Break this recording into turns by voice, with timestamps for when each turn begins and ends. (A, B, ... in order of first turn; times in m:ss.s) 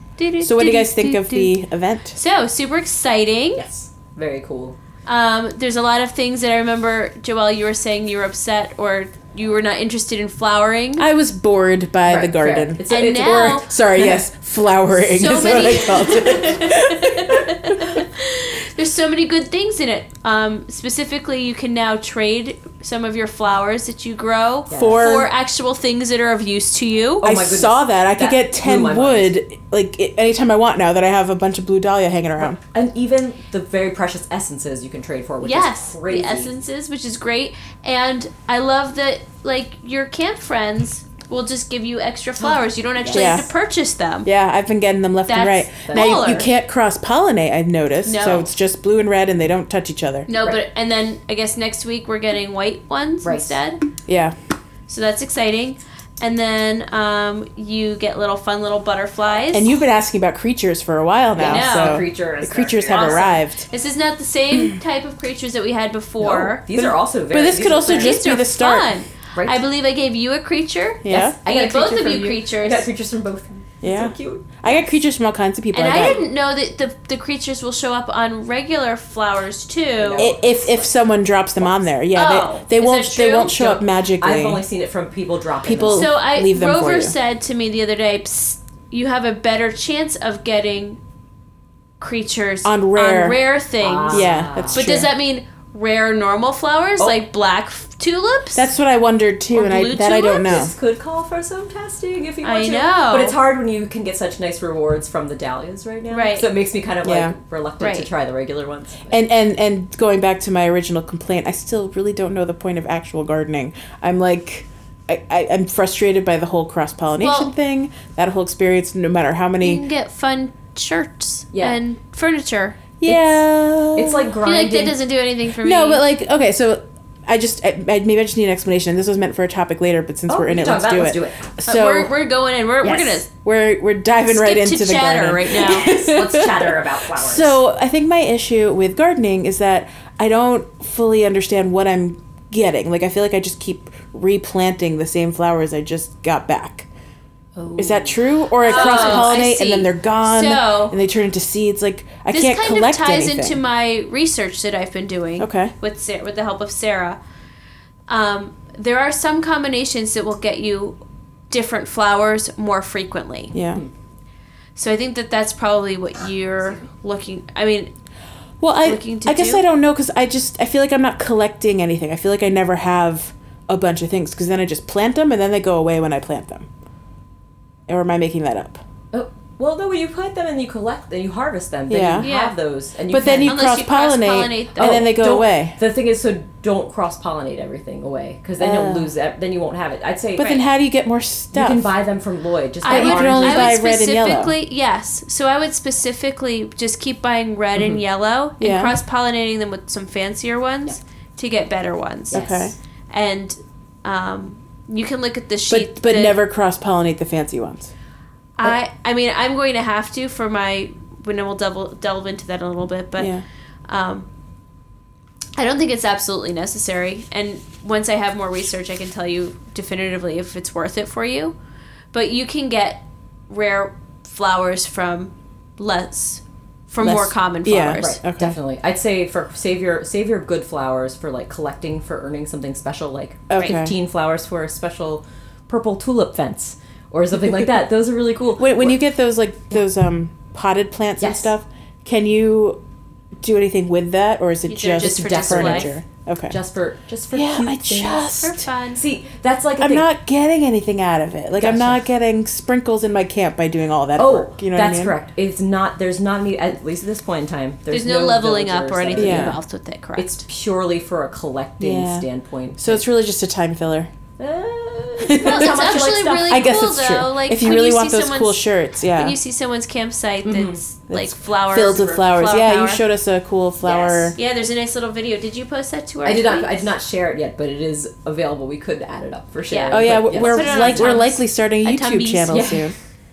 0:00.2-0:01.6 A
0:00.4-0:02.2 B
0:02.1-0:03.6 A
0:03.5-0:04.8 C
0:05.0-0:11.0 A
0:11.0-0:18.0 B
0:12.0-0:14.2 C
0:12.9-0:13.7 A
0:15.0-0:27.3 A
0:24.7-0:25.2 C
0:24.7-0:25.3 B
0:27.2-0:29.3 C
0:27.2-0:32.6 B
0:32.4-0:36.5 C
0:35.4-0:44.3 A
0:42.4-0:43.4 C
0:43.1-0:43.5 B
0:44.2-0:50.3 B
0:45.3-0:46.5 A
0:45.8-0:46.2 C
0:48.0-0:48.4 A
0:50.3-0:53.8 A
0:53.2-0:53.6 C
0:54.1-0:54.3 B
0:54.9-0:59.7 A
0:59.5-1:03.7 B
1:01.4-1:03.4 C
1:01.4-1:02.0 A
1:02.9-1:06.6 A
1:04.5-1:04.8 B
1:06.2-1:08.2 C
1:06.7-1:08.9 B
1:07.9-1:12.9 A
1:09.3-1:09.6 C
1:11.0-1:11.4 B
1:11.1-1:14.7 C
1:13.8-1:16.2 B
1:15.7-1:20.3 A
1:15.9-1:16.2 C
1:20.0-1:20.9 C
1:20.2-1:24.6 B
1:22.1-1:23.6 A
1:23.5-1:26.1 C
1:25.6-1:27.1 B
1:25.9-1:31.0 A
1:32.0-1:38.7 A
1:32.6-1:33.4 B
1:33.8-1:34.8 C
1:34.1-1:35.1 B
1:38.5-1:40.7 B
1:39.5-1:40.6 A
1:40.4-1:49.2 C
1:42.4-1:43.4 A
1:46.1-1:46.5 A
1:47.0-1:47.3 B
1:47.8-1:48.1 A
1:49.1-1:59.8 B
1:57.2-1:57.5 A
1:59.6-2:02.8 A
2:01.5-2:01.8 C
2:03.0-2:04.3 B
2:03.0-2:03.4 C
2:03.9-2:05.0 C
2:04.4-2:06.0 A
2:05.6-2:12.1 B
2:10.3-2:11.5 C
2:11.6-2:13.3 A
2:12.8-2:13.2 C
2:13.4-2:26.9 B
2:14.2-2:15.9 A
2:15.6-2:17.6 C
2:27.6-2:29.3 C
2:27.8-2:33.6 B
2:28.6-2:31.0 A
2:32.3-2:37.2 A
2:35.4-2:35.7 B
2:38.1-2:41.0 A
2:41.5-2:43.5 A
2:43.5-2:43.8 B
2:44.8-2:47.9 A
2:48.6-2:56.7 B
2:48.8-2:49.6 A
2:57.9-2:58.8 B
2:59.1-3:03.6 C
3:01.9-3:02.3 B
3:02.2-3:02.6 A
3:03.1-3:05.8 B
3:03.4-3:05.1 A
3:04.8-3:10.5 C
3:08.6-3:09.1 B
3:10.4-3:11.9 B
3:10.4-3:10.6 A
3:11.5-3:13.8 C
3:12.8-3:22.5 A
3:12.9-3:14.5 B
3:18.6-3:19.0 B
3:22.3-3:22.7 C
3:22.3-3:22.7 B
3:23.1-3:26.4 A
3:25.7-3:27.9 B
3:28.6-3:33.3 A
3:33.2-3:33.4 B
3:33.9-3:34.3 A
3:35.6-3:41.5 A
3:42.1-3:48.2 A
3:47.0-3:48.6 B
3:48.0-3:59.0 C
3:53.5-3:54.0 B
3:58.6-4:02.8 B
4:01.2-4:01.5 C
4:03.4-4:06.6 B
4:04.7-4:05.9 A
4:05.0-4:08.3 C
4:07.3-4:08.7 B
4:08.4-4:09.0 A
4:08.9-4:10.1 C
4:09.8-4:15.1 B
4:11.6-4:12.0 C
4:14.2-4:19.6 C
4:17.9-4:20.4 A
4:19.1-4:19.6 B
4:20.2-4:23.0 C
4:21.8-4:22.2 B
4:22.8-4:24.1 B
4:24.4-4:26.6 C
4:25.2-4:29.4 B
4:25.4-4:33.0 A
4:30.4-4:30.8 C
4:31.1-4:34.4 B
4:33.8-4:34.3 C
4:34.3-4:36.8 A
4:36.2-4:41.2 C
4:39.7-4:42.7 A
4:39.9-4:43.0 B
4:42.5-4:42.9 C